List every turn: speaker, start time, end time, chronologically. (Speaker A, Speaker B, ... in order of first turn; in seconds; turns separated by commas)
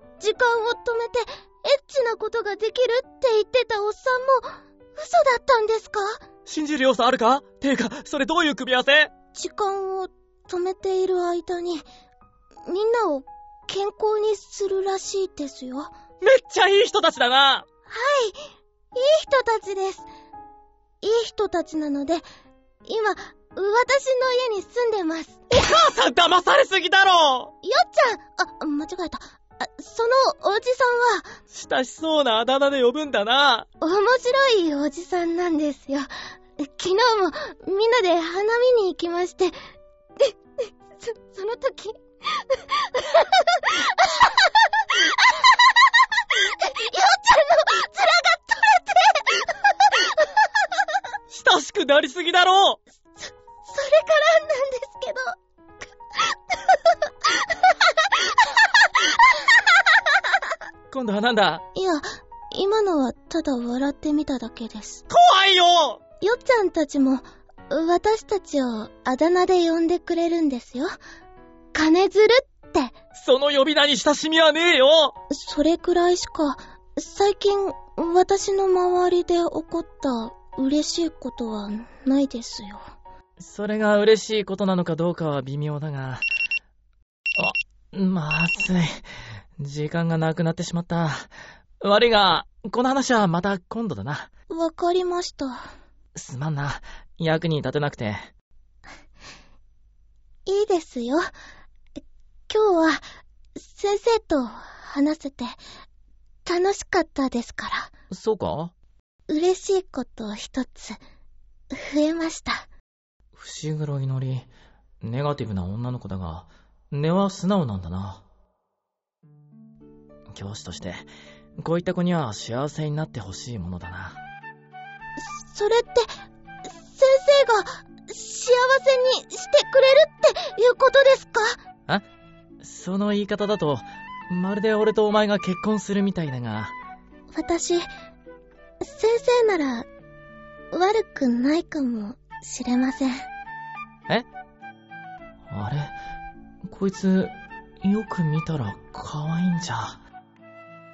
Speaker A: 0.2-6.2, Speaker B: 6.5-9.1, Speaker A: 9.3-11.9, Speaker A: 12.7-15.9, Speaker B: 16.2-17.6, Speaker A: 17.9-18.4, Speaker A: 18.9-20.1, Speaker A: 21.0-22.2, Speaker A: 22.9-25.4, Speaker B: 25.5-27.5, Speaker A: 27.6-31.4, Speaker B: 31.5-33.7, Speaker A: 33.8-39.6, Speaker A: 40.2-50.7, Speaker B: 51.3-52.8, Speaker A: 53.2-55.4, Speaker A: 56.1-60.3, Speaker B: 60.9-61.6, Speaker A: 61.8-65.0, Speaker B: 65.1-66.0, Speaker A: 66.2-71.0, Speaker A: 71.7-73.0, Speaker B: 73.2-75.2, Speaker A: 75.3-82.8, Speaker B: 83.4-86.3, Speaker B: 87.4-89.0, Speaker B: 89.6-94.3, Speaker A: 94.5-95.6, Speaker B: 96.2-98.3, Speaker A: 100.5-101.3, Speaker A: 102.5-103.0, Speaker A: 103.6-105.6, Speaker A: 106.5-107.9, Speaker B: 108.1-108.7, Speaker A: 109.3-111.0, Speaker A: 111.7-112.7, Speaker B: 113.4-114.5, Speaker B: 115.0-118.2, Speaker B: 120.3-121.1, Speaker B: 121.6-124.2, Speaker A: 125.2-126.1, Speaker A: 126.8-131.6, Speaker B: 132.6-136.8, Speaker A: 137.3-137.9, Speaker A: 138.8-139.9, Speaker A: 140.7-143.3, Speaker B: 145.5-145.9, Speaker B: 146.6-150.0